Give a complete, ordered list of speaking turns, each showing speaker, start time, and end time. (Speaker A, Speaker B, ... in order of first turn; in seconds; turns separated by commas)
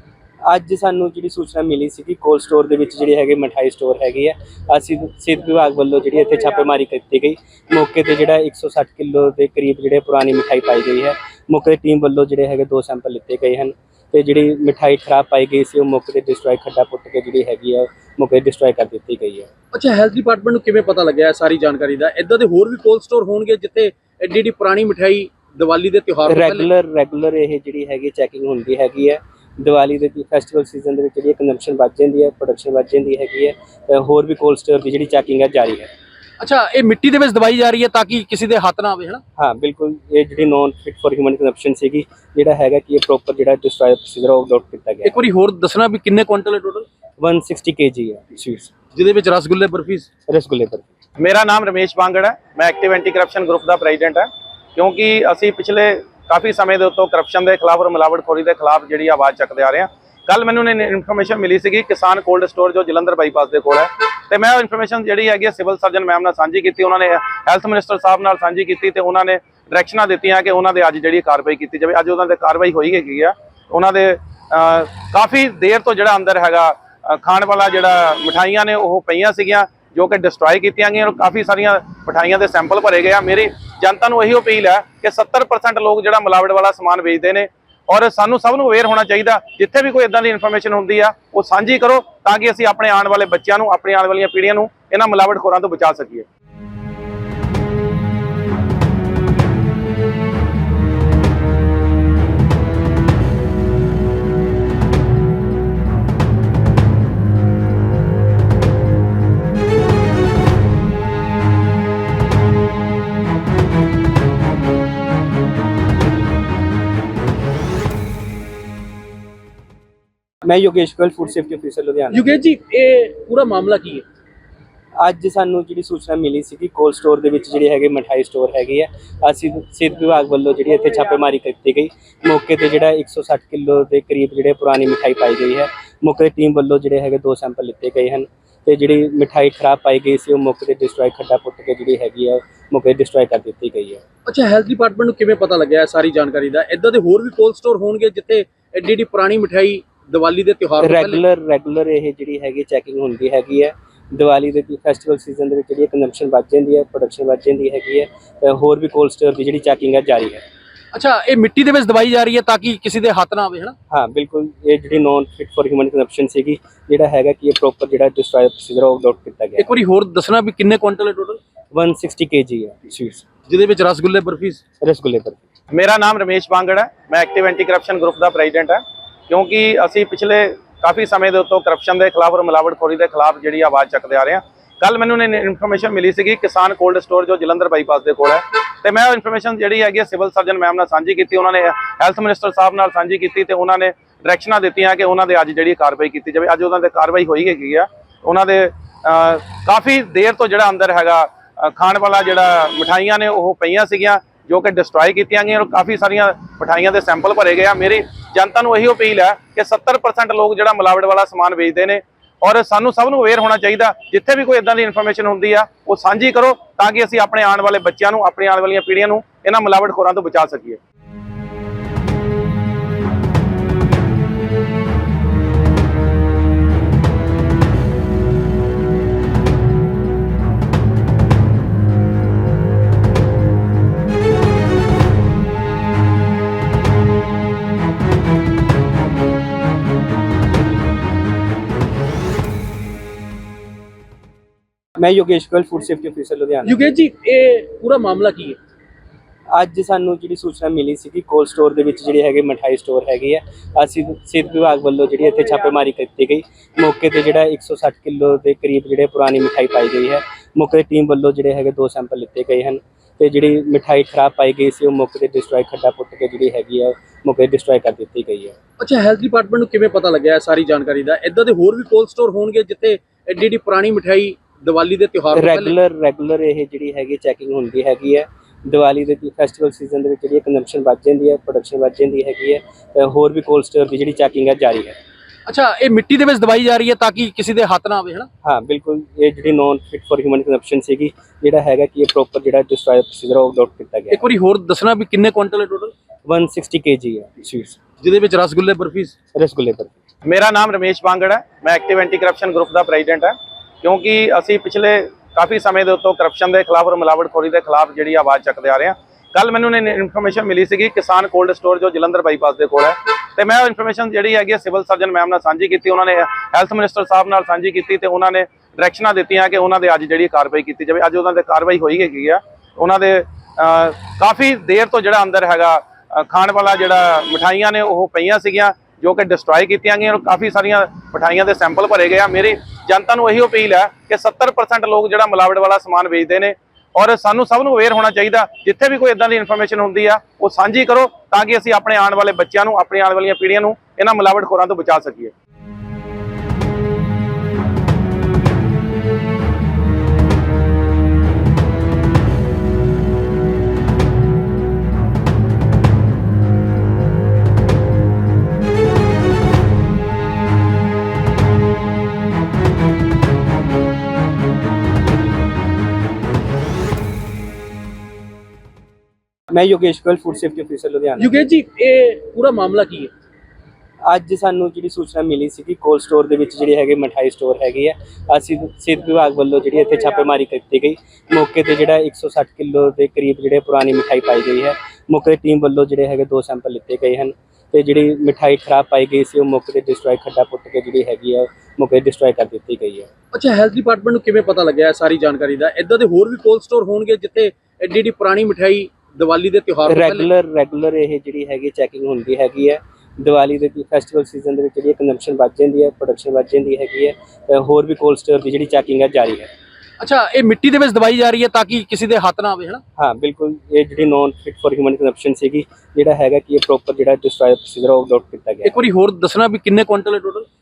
Speaker A: 0.5-19.5, Speaker B: 19.7-26.7, Speaker A: 26.3-35.9, Speaker B: 36.4-39.2, Speaker A: 39.4-45.1, Speaker B: 45.0-46.9, Speaker A: 47.2-48.7, Speaker B: 49.0-50.1, Speaker A: 50.3-50.9, Speaker C: 51.2-96.3, Speaker A: 120.5-122.2, Speaker B: 122.1-124.0, Speaker A: 125.0-144.0, Speaker B: 144.3-151.2, Speaker A: 150.8-160.4, Speaker B: 160.9-163.8, Speaker A: 163.9-169.7, Speaker B: 169.6-171.4, Speaker A: 171.7-173.3, Speaker B: 173.5-174.6, Speaker A: 174.8-175.4, Speaker C: 175.7-220.8, Speaker A: 245.0-246.8, Speaker B: 246.7-248.6, Speaker A: 249.5-268.6, Speaker B: 268.8-275.8, Speaker A: 275.3-285.0, Speaker B: 285.5-288.3, Speaker A: 288.4-294.2, Speaker B: 294.1-295.9, Speaker A: 296.3-297.8, Speaker B: 298.0-299.1, Speaker A: 299.4-299.9, Speaker C: 300.3-345.3, Speaker A: 369.5-371.3, Speaker B: 371.2-373.1, Speaker A: 374.1-393.1, Speaker B: 393.3-400.3, Speaker A: 399.9-409.5, Speaker B: 410.0-412.8, Speaker A: 413.0-418.7, Speaker B: 418.6-420.5